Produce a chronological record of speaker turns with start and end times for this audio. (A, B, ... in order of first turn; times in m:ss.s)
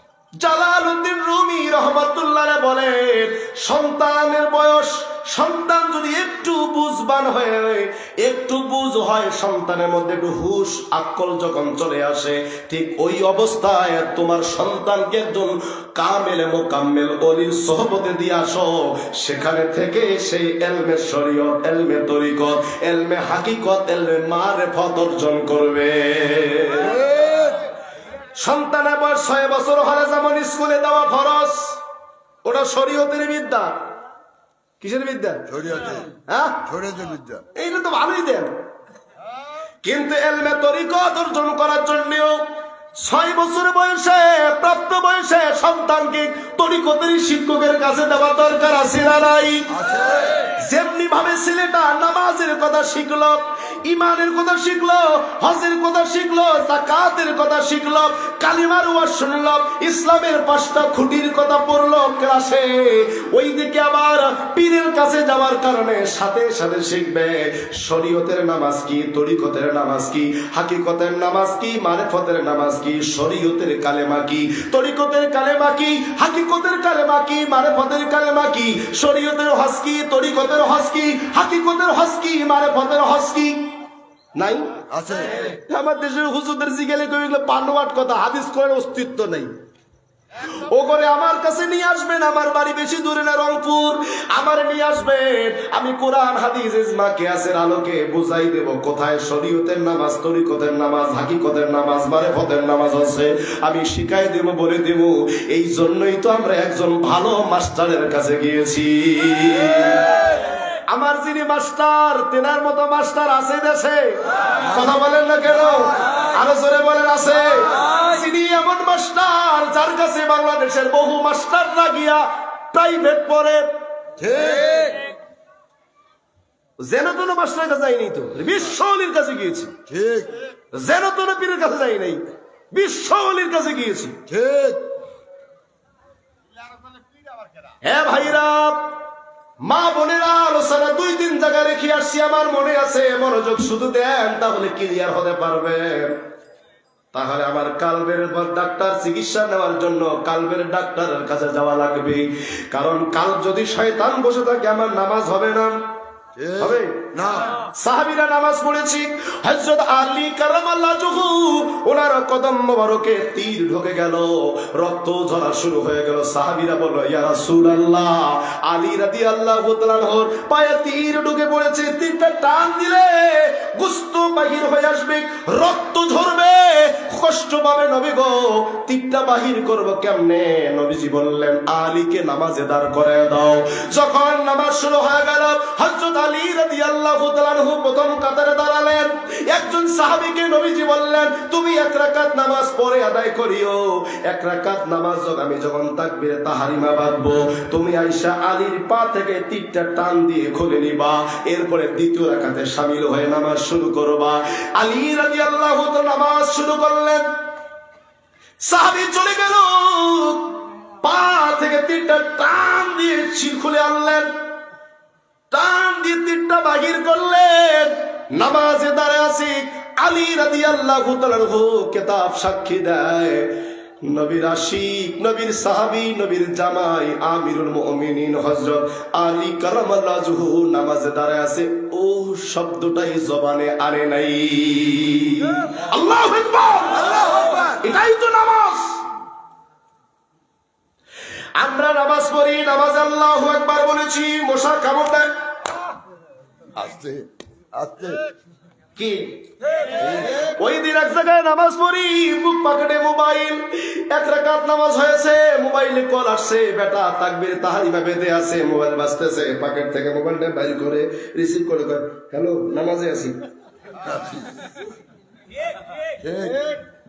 0:00.4-0:27.0 A
0:26.8-0:27.7 B
0:28.4-0:31.8 A
0:32.4-0:33.9 A
0:34.8-0:35.5 A
0:35.5-0:37.4 B
0:36.3-0:36.7 A
0:37.6-0:38.6 A
0:39.8-0:42.4 A
0:43.0-0:49.7 A
0:49.7-0:50.5 B
0:50.6-1:23.8 A
1:24.4-1:24.7 A
1:24.9-1:25.4 B
1:25.7-1:29.5 A
1:30.5-1:50.2 A
1:50.9-2:03.7 A
2:04.2-2:05.1 B
2:06.8-2:09.8 A
2:09.9-2:10.4 B
2:10.7-2:14.2 A
2:14.3-2:14.9 B
2:17.8-2:19.0 A
2:19.6-2:26.2 A
2:27.1-2:35.8 A
2:36.4-2:37.6 B
2:36.6-2:37.1 A
2:37.6-3:27.3 A
3:28.6-3:34.3 A
3:35.5-3:57.1 A
3:57.0-3:57.8 B
3:57.8-3:59.0 A
4:01.6-4:05.3 A
4:06.8-4:08.2 B
4:09.0-4:09.4 A
4:10.0-4:10.4 B
4:10.4-4:23.4 A
4:24.0-4:24.6 B
4:26.2-4:26.8 B